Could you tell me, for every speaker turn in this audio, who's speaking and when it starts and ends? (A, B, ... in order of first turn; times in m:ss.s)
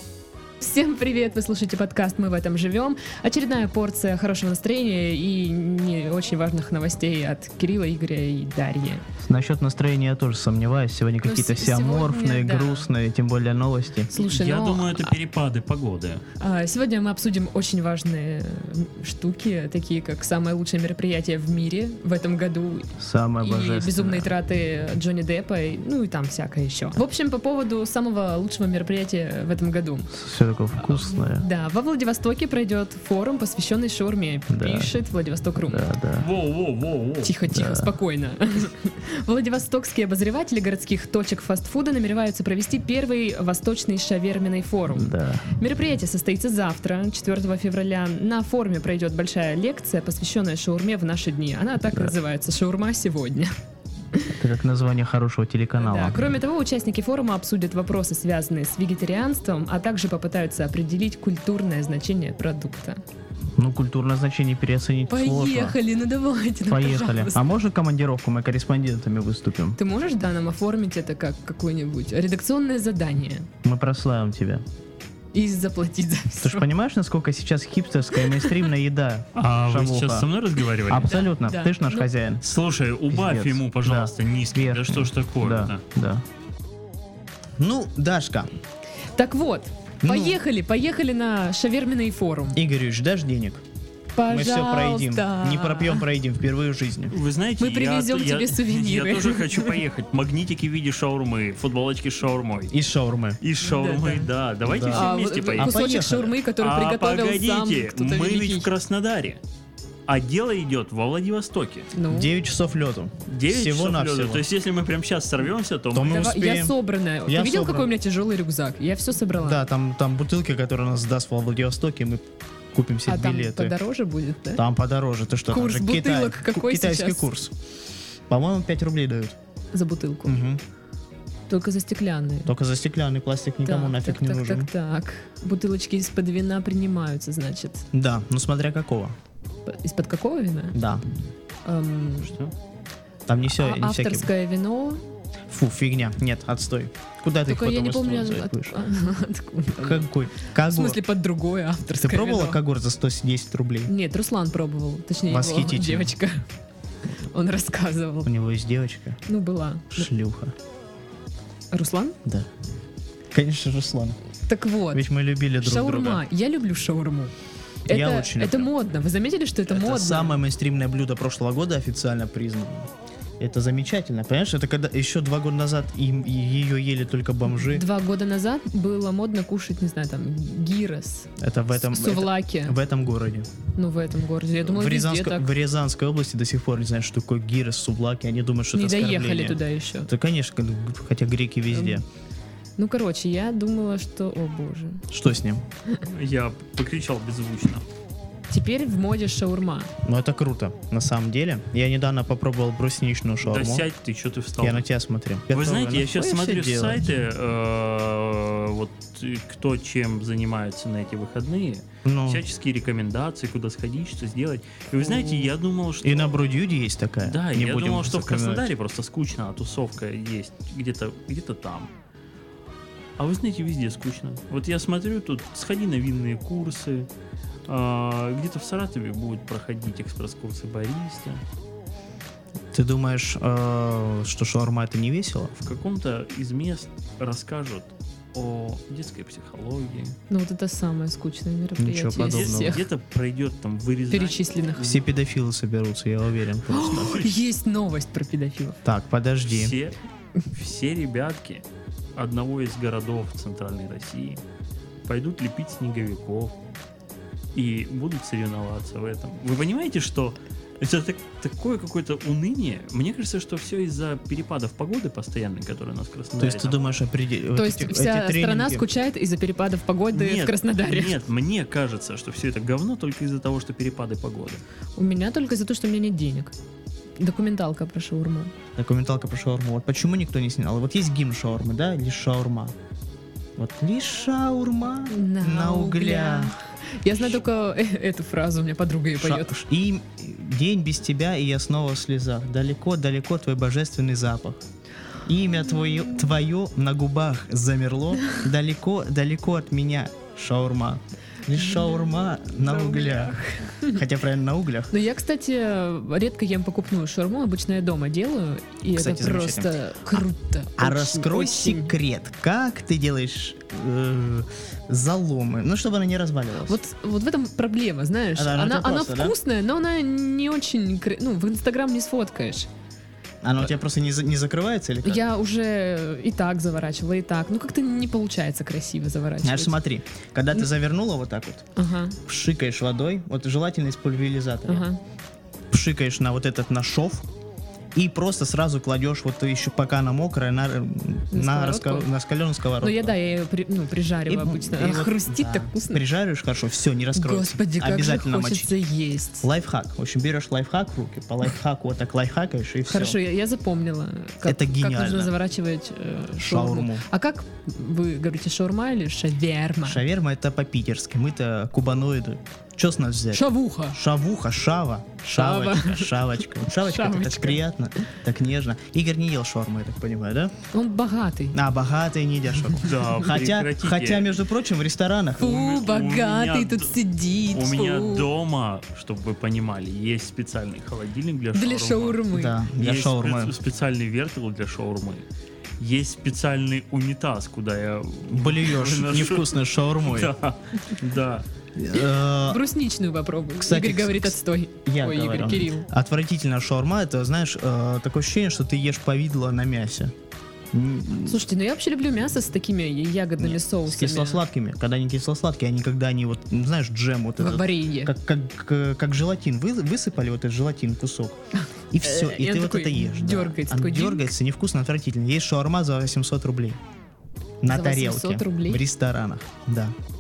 0:00.6-0:09.0 A
0:09.2-0:14.1 B
0:11.2-0:12.9 A
0:14.1-0:15.1 A
0:14.1-0:16.2 C
0:16.4-0:30.1 A
0:23.0-0:24.3 B
0:30.1-0:31.4 B
0:30.8-0:35.9 A
0:34.5-0:34.9 B
0:35.7-0:36.3 B
0:36.2-0:37.3 C
0:37.2-0:53.6 A
0:37.5-0:38.0 B
0:44.9-0:45.5 B
0:54.4-0:56.3 B
0:55.8-1:03.0 A
1:03.5-1:05.8 B
1:05.1-1:07.4 A
1:06.6-1:09.8 B
1:09.8-1:13.5 A
1:13.6-1:14.6 B
1:15.3-1:16.7 A
1:16.4-1:20.3 B
1:18.2-1:18.6 A
1:19.3-1:21.2 C
1:20.9-1:22.4 B
1:21.1-1:22.1 A
1:22.4-1:25.8 C
1:23.1-1:26.2 B
1:27.6-1:28.5 B
1:29.2-1:32.6 A
1:30.0-1:30.4 B
1:32.5-1:33.6 B
1:34.1-1:36.0 A
1:34.3-1:37.2 B
1:37.1-1:42.7 C
1:37.6-1:39.8 A
1:42.7-1:43.4 B
1:43.4-1:45.8 C
1:43.6-1:44.3 A
1:44.6-1:46.3 B
1:44.9-1:48.7 A
1:46.6-1:49.4 C
1:50.1-1:51.9 C
1:51.9-1:52.3 A
1:52.1-1:54.4 B
1:53.3-1:56.2 C
1:55.9-1:57.9 B
1:56.0-1:59.6 A
1:59.4-2:03.8 B
2:03.1-2:04.6 A
2:04.6-2:07.6 B
2:05.5-2:07.3 A
2:08.3-2:09.4 B
2:09.7-2:10.4 A
2:10.2-2:10.6 B
2:11.5-2:12.5 A
2:12.5-2:14.7 B
2:13.6-2:17.9 A
2:17.9-2:19.2 B
2:19.7-2:20.8 A
2:20.7-2:21.0 B
2:21.6-2:22.4 A
2:22.2-2:22.5 C
2:23.3-2:24.3 B
2:23.6-2:25.0 A
2:25.5-2:28.8 B
2:27.5-2:32.6 A
2:29.8-2:31.0 B
2:32.0-2:33.9 B
2:33.9-2:36.5 A
2:35.3-2:36.1 B
2:37.1-2:38.3 A
2:38.2-2:39.2 B
2:39.2-2:40.1 A
2:39.9-2:40.6 B
2:41.7-2:42.2 A
2:43.3-2:44.2 B
2:44.5-2:45.0 A
2:44.9-2:46.2 B
2:45.6-2:47.3 A
2:47.9-2:50.4 A
2:47.9-2:48.7 B
2:49.7-2:57.9 B
2:57.5-3:02.8 A
3:01.4-3:03.5 B
3:03.8-3:05.5 A
3:04.6-3:12.0 B
3:08.7-3:10.1 A
3:11.7-3:12.0 A
3:12.8-3:15.0 A
3:15.1-3:15.6 B
3:16.0-3:17.8 C
3:18.5-3:19.9 A
3:20.0-3:23.9 B
3:23.4-3:24.8 C
3:24.6-3:27.1 B
3:25.5-3:36.4 C
3:32.0-3:32.4 B
3:36.0-3:38.6 B
3:37.2-3:41.9 C
3:43.2-3:47.1 C
3:47.7-3:51.4 C
3:52.7-3:55.5 B
3:55.6-4:00.2 C
4:00.3-4:02.8 A
4:01.8-4:02.8 B
4:02.2-4:05.0 C
4:04.1-4:04.8 A
4:04.8-4:07.3 B
4:06.7-4:08.8 A
4:08.8-4:09.7 B
4:09.5-4:10.0 C
4:10.5-4:14.4 C
4:15.0-4:16.6 C
4:17.5-4:26.9 C
4:26.3-4:28.8 B
4:27.5-4:31.2 A
4:30.1-4:34.6 C
4:35.0-4:36.5 A
4:37.2-4:38.5 A
4:38.8-4:42.8 B
4:43.6-4:47.4 B
4:45.1-4:49.5 A
4:49.2-4:54.6 B
4:55.2-5:04.9 B
4:55.7-4:56.3 A
5:01.5-5:04.0 A
5:04.9-5:11.9 A
5:08.9-5:10.2 B
5:10.8-5:16.8 B
5:16.6-5:22.7 A
5:18.3-5:19.4 B
5:23.4-5:25.2 B
5:25.0-5:29.8 A
5:29.4-5:31.6 B
5:31.8-5:32.2 A
5:32.2-5:34.9 B
5:34.6-5:35.0 A
5:35.7-5:37.3 B
5:37.9-5:43.2 B
5:41.3-5:42.1 A
5:42.8-5:46.0 A
5:44.3-5:48.7 B
5:47.1-5:49.5 A
5:49.4-5:53.2 B
5:52.9-6:00.0 A
5:54.4-5:55.3 B
5:56.4-5:57.0 B
5:59.8-6:10.5 B
6:03.3-6:04.0 A
6:05.3-6:07.6 A
6:10.7-6:11.6 A
6:11.5-6:15.5 B
6:12.8-6:14.3 C
6:15.4-6:17.0 C
6:15.4-6:18.3 A
6:17.5-6:22.2 C
6:21.5-6:22.6 A
6:22.3-6:23.5 B
6:22.8-6:25.2 C
6:25.8-6:31.4 C
6:28.3-6:30.3 B
6:31.8-6:32.6 B
6:32.4-6:35.9 A
6:33.6-6:34.3 B
6:34.8-6:40.1 B
6:40.7-6:41.4 B
6:41.2-6:44.4 A
6:43.4-6:51.4 B
6:47.4-6:48.1 A
6:51.9-6:56.8 B
6:52.0-6:54.3 A
6:57.6-7:00.0 B
6:57.6-6:58.8 A